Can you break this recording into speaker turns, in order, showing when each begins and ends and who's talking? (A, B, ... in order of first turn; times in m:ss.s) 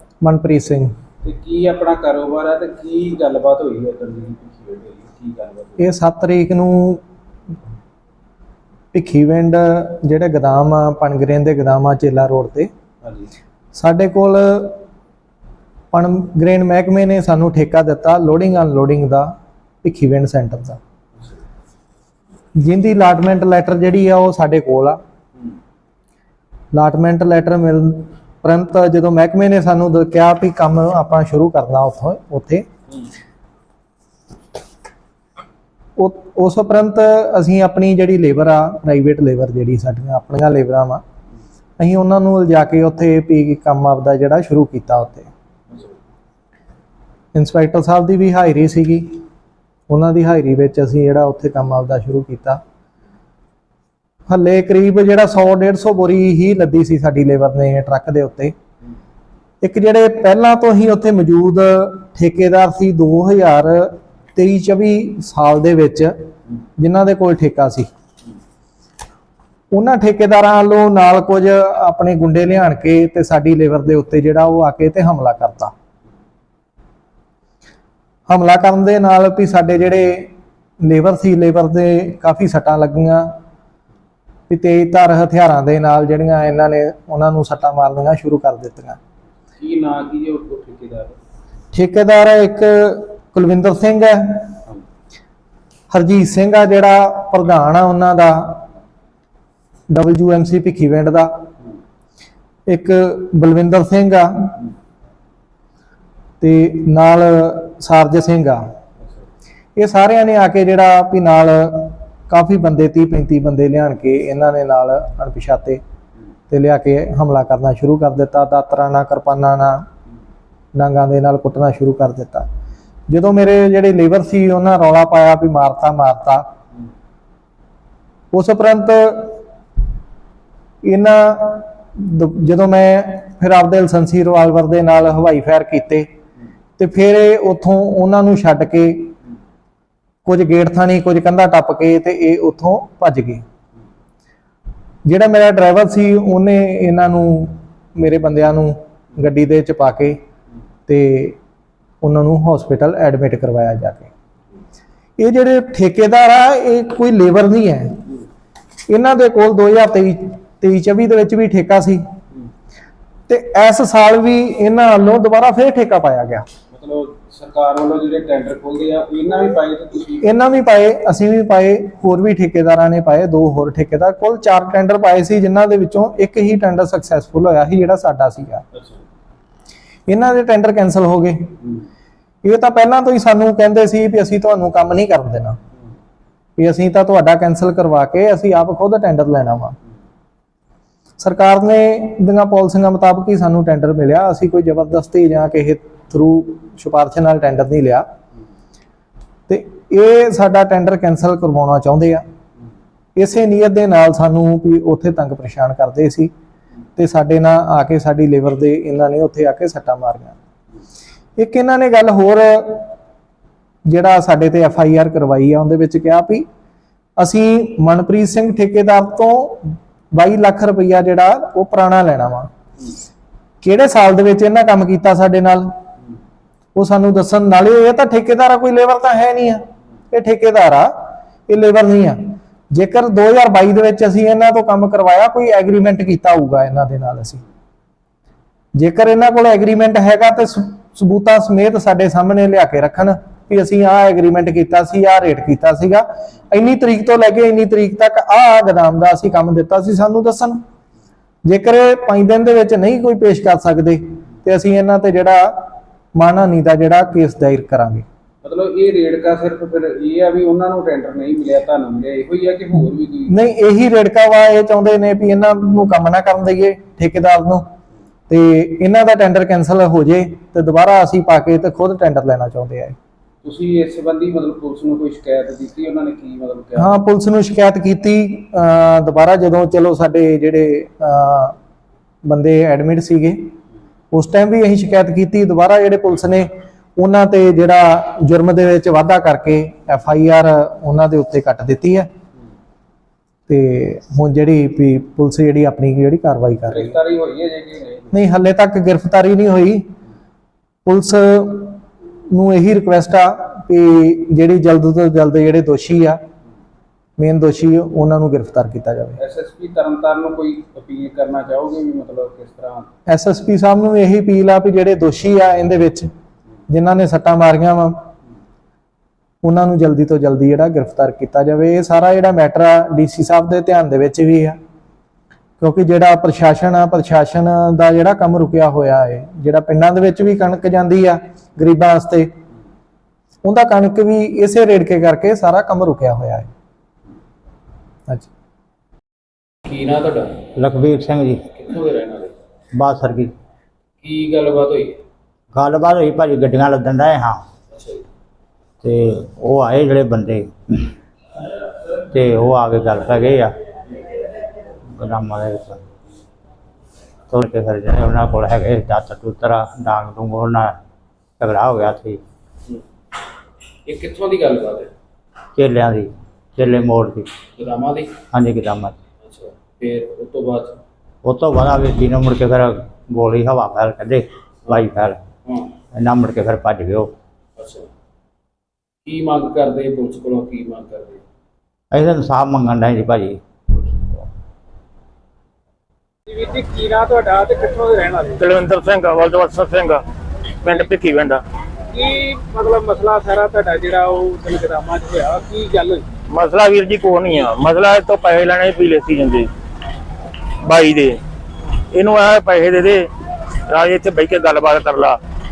0:00.2-0:00.9 A
0:01.2-0:05.8 B
0:05.8-0:07.0 A
0:08.9-0:12.7 A
0:13.0-0:13.3 B
0:13.7-0:14.8 A
0:15.9-0:19.3 A
0:19.8-0:20.8 A
0:22.6-0:25.0 A
0:26.7-0:32.6 A
0:36.0-0:41.0 A
0:41.8-0:45.3 A
0:47.3-0:49.2 A
0:49.9-0:52.6 A
0:54.3-0:58.5 A
0:59.6-1:06.1 A
1:06.8-1:07.9 A
1:09.7-1:15.7 A
1:18.3-1:23.3 A
1:24.5-1:29.0 A
1:29.6-1:31.2 B
1:31.7-1:34.6 A
1:35.9-1:38.6 A
1:39.9-1:41.4 A
1:42.7-1:44.6 A
1:46.4-1:48.6 A
1:49.8-1:55.8 A
1:56.5-1:59.8 A
2:00.8-2:02.5 A
2:03.1-2:06.4 A
2:08.3-2:09.4 A
2:10.8-2:16.1 A
2:16.8-2:19.1 A
2:20.2-2:23.4 A
2:25.0-2:30.2 A
2:30.9-2:31.4 A
2:32.0-2:34.1 A
2:35.2-2:38.0 A
2:38.9-2:42.0 A
2:43.3-2:46.4 A
2:46.7-2:50.3 B
2:50.2-2:58.6 A
2:58.7-2:59.0 B
3:00.1-3:01.6 A
3:02.4-3:05.6 A
3:06.6-3:09.8 A
3:11.2-3:18.0 A
3:19.5-3:22.2 A
3:23.2-3:26.3 A
3:27.0-3:30.4 A
3:31.4-3:32.9 A
3:33.9-3:36.4 A
3:37.2-3:42.5 A
3:43.6-3:45.7 A
3:46.7-3:57.4 A
3:58.8-4:10.6 A
4:11.5-4:18.0 A
4:18.4-4:23.4 B
4:23.3-4:27.7 A
4:28.3-4:33.0 A
4:33.4-4:37.0 B
4:36.8-4:41.6 A
4:42.2-4:43.5 A
4:44.1-4:52.1 A
4:53.5-4:57.0 A
4:56.7-4:58.1 B
4:58.1-4:59.9 A
5:00.8-5:06.2 A
5:07.2-5:09.2 A
5:09.2-5:12.9 B
5:13.1-5:16.1 A
5:16.7-5:18.0 A
5:19.4-5:24.6 A
5:25.6-5:32.3 A
5:33.4-5:36.5 A
5:39.6-5:40.5 B
5:40.6-5:41.4 C
5:41.5-5:42.3 B
5:42.7-5:43.3 C
5:44.0-5:45.0 B
5:45.5-5:47.4 C
5:48.8-5:50.9 C
5:52.1-5:53.5 C
5:54.9-5:55.8 C
5:57.3-6:00.8 C
6:01.4-6:02.2 C
6:03.8-6:04.9 B
6:05.6-6:07.3 C
6:07.6-6:08.2 B
6:08.3-6:09.0 C
6:09.2-6:10.8 B
6:11.2-6:15.2 C
6:15.9-6:17.1 C
6:17.6-6:17.9 B
6:19.0-6:21.2 B
6:21.9-6:23.4 C
6:26.3-6:28.4 B
6:28.4-6:30.0 D
6:30.6-6:31.4 D
6:31.9-6:36.0 B
6:36.3-6:39.5 D
6:40.6-6:41.2 D
6:41.9-6:43.1 D
6:43.7-6:45.2 D